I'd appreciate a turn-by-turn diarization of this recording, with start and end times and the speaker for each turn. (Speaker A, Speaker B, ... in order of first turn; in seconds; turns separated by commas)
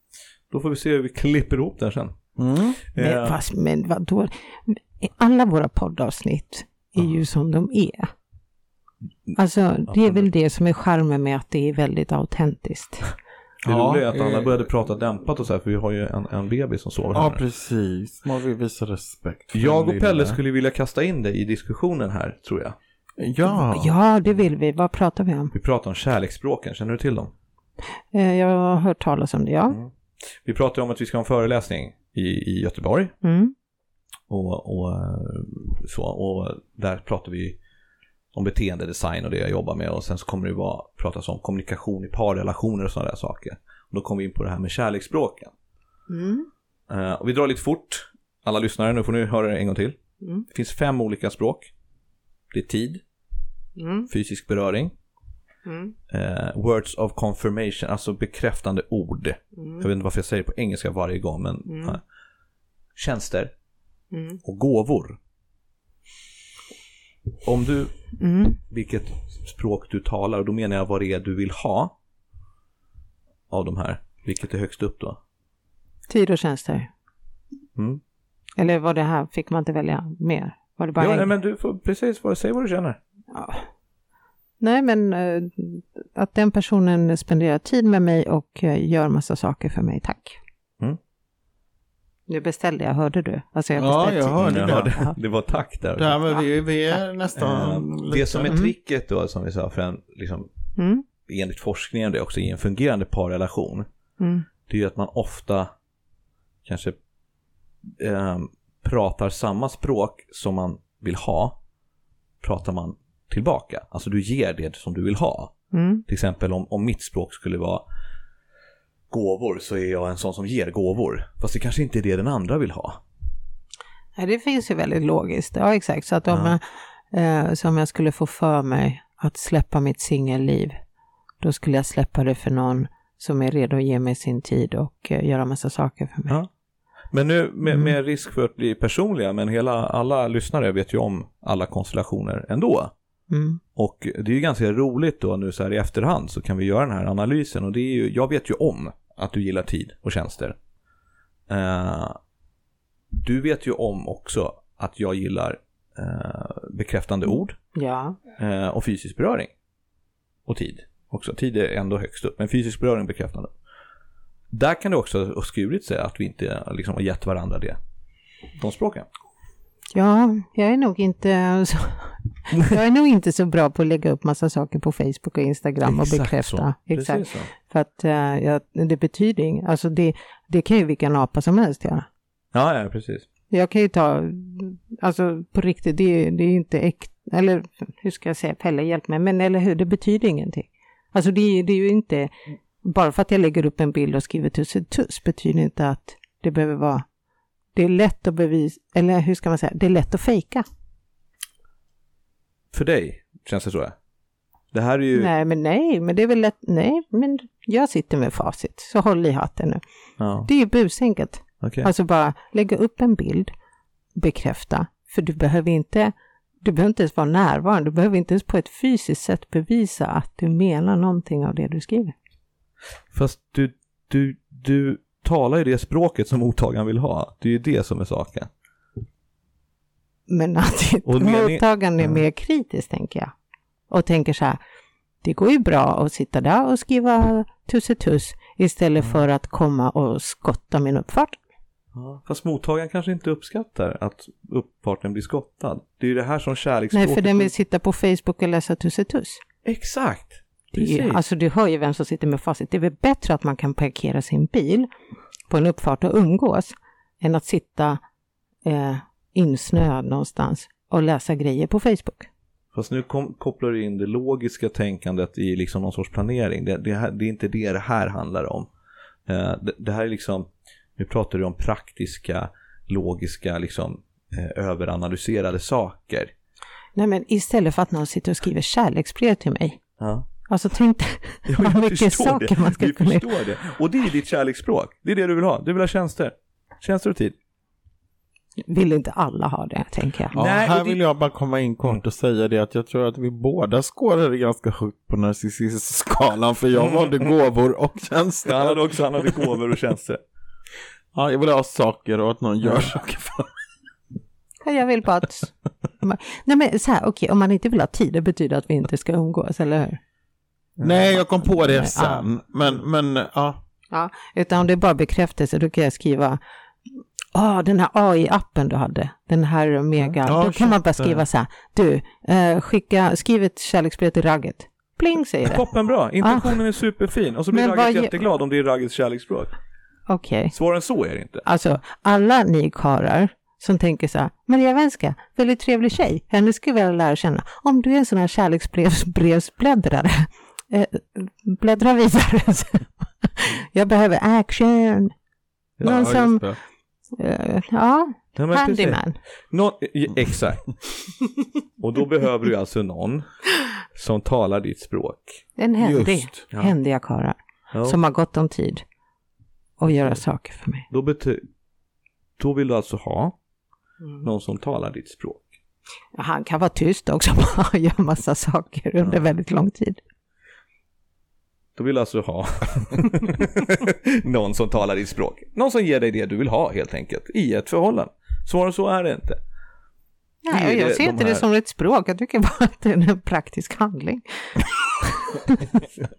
Speaker A: 0.5-2.1, Speaker B: 2.4-2.8, Speaker A: 2.9-3.4, Speaker C: 3.0-8.1, Speaker C: 9.3-13.1, Speaker A: 9.9-10.3, Speaker A: 13.6-17.4, Speaker B: 13.6-14.6, Speaker B: 17.1-20.4, Speaker A: 19.5-22.8, Speaker B: 23.2-23.9, Speaker C: 23.4-25.5, Speaker A: 25.5-27.3, Speaker C: 28.1-29.8, Speaker A: 30.4-33.1, Speaker C: 33.2-33.5, Speaker A: 34.3-37.6, Speaker A: 38.3-45.5, Speaker C: 46.1-46.5, Speaker A: 46.9-50.0, Speaker A: 50.5-51.7, Speaker A: 52.5-53.0, Speaker C: 53.8-54.1, Speaker A: 54.1-54.9, Speaker C: 55.6-55.9, Speaker A: 56.1-62.0, Speaker C: 59.6-59.8, Speaker C: 61.7-62.0, Speaker A: 63.0-63.5, Speaker C: 64.1-64.4, Speaker A: 64.4-65.2, Speaker A: 67.4-67.9, Speaker C: 68.2-68.6, Speaker A: 68.6-71.9, Speaker A: 73.5-75.2, Speaker C: 76.1-76.9, Speaker C: 78.6-81.3, Speaker A: 81.0-83.0, Speaker C: 83.3-83.6, Speaker C: 84.6-90.4, Speaker C: 92.3-95.1, Speaker B: 93.8-94.9, Speaker A: 94.4-96.2, Speaker B: 96.0-98.6, Speaker A: 97.4-100.5, Speaker C: 100.8-101.0, Speaker A: 101.2-103.9, Speaker C: 104.2-104.5, Speaker A: 104.7-105.7, Speaker A: 106.7-107.0, Speaker A: 108.0-111.6, Speaker A: 112.4-115.5, Speaker C: 115.7-116.0, Speaker A: 116.1-117.8, Speaker A: 119.1-123.0, Speaker C: 124.2-130.8, Speaker A: 126.3-126.5, Speaker C: 131.4-136.4, Speaker A: 137.1-142.9, Speaker C: 137.7-137.9, Speaker C: 143.3-143.6, Speaker A: 143.8-150.6, Speaker A: 151.5-152.2, Speaker A: 153.1-157.6, Speaker C: 157.7-158.2, Speaker A: 158.4-159.5, Speaker A: 160.5-163.5, Speaker A: 164.5-167.8, Speaker A: 168.6-169.1, Speaker C: 169.9-182.1, Speaker A: 175.8-177.5, Speaker A: 182.5-183.3, Speaker C: 183.5-197.0, Speaker C: 197.7-200.6, Speaker A: 202.7-203.9, Speaker A: 204.7-205.3, Speaker C: 205.1-209.8, Speaker A: 210.2-210.5, Speaker C: 210.4-213.5, Speaker A: 211.6-211.9, Speaker C: 214.2-222.1, Speaker A: 223.1-228.5, Speaker C: 230.3-233.3, Speaker A: 231.1-232.2, Speaker C: 233.9-234.6, Speaker C: 235.2-241.4, Speaker A: 241.9-247.5, Speaker C: 246.9-249.4, Speaker A: 249.6-251.2, Speaker C: 250.7-254.9, Speaker C: 255.5-258.0, Speaker C: 258.6-262.3, Speaker A: 262.7-268.7, Speaker A: 269.3-276.3, Speaker C: 276.9-279.8, Speaker A: 280.0-280.3, Speaker C: 280.5-283.3, Speaker A: 281.5-287.4, Speaker C: 288.6-290.4, Speaker B: 290.3-299.4, Speaker A: 290.3-291.0, Speaker A: 296.8-297.2, Speaker A: 298.4-300.2, Speaker B: 301.1-303.5, Speaker A: 302.6-302.9, Speaker C: 304.6-310.0, Speaker B: 310.8-313.6, Speaker C: 311.1-312.2, Speaker C: 313.9-316.4, Speaker C: 317.3-325.6, Speaker B: 320.2-321.2, Speaker A: 325.4-329.5, Speaker C: 326.2-326.6, Speaker C: 327.5-328.1, Speaker C: 330.1-330.5, Speaker A: 330.5-331.4, Speaker C: 331.4-345.1, Speaker A: 345.8-346.2, Speaker C: 345.8-346.4, Speaker B: 345.8-346.6, Speaker C: 347.1-349.1, Speaker A: 348.4-349.0, Speaker A: 349.5-350.8, Speaker A: 351.8-353.3, Speaker A: 353.9-355.4, Speaker C: 355.6-358.8, Speaker B: 355.8-356.4, Speaker A: 357.7-358.0, Speaker C: 359.8-360.9, Speaker A: 360.9-361.4, Speaker A: 362.4-363.3, Speaker A: 364.2-365.4, Speaker C: 366.1-370.0, Speaker A: 371.8-379.4, Speaker C: 380.4-385.8, Speaker A: 380.5-381.4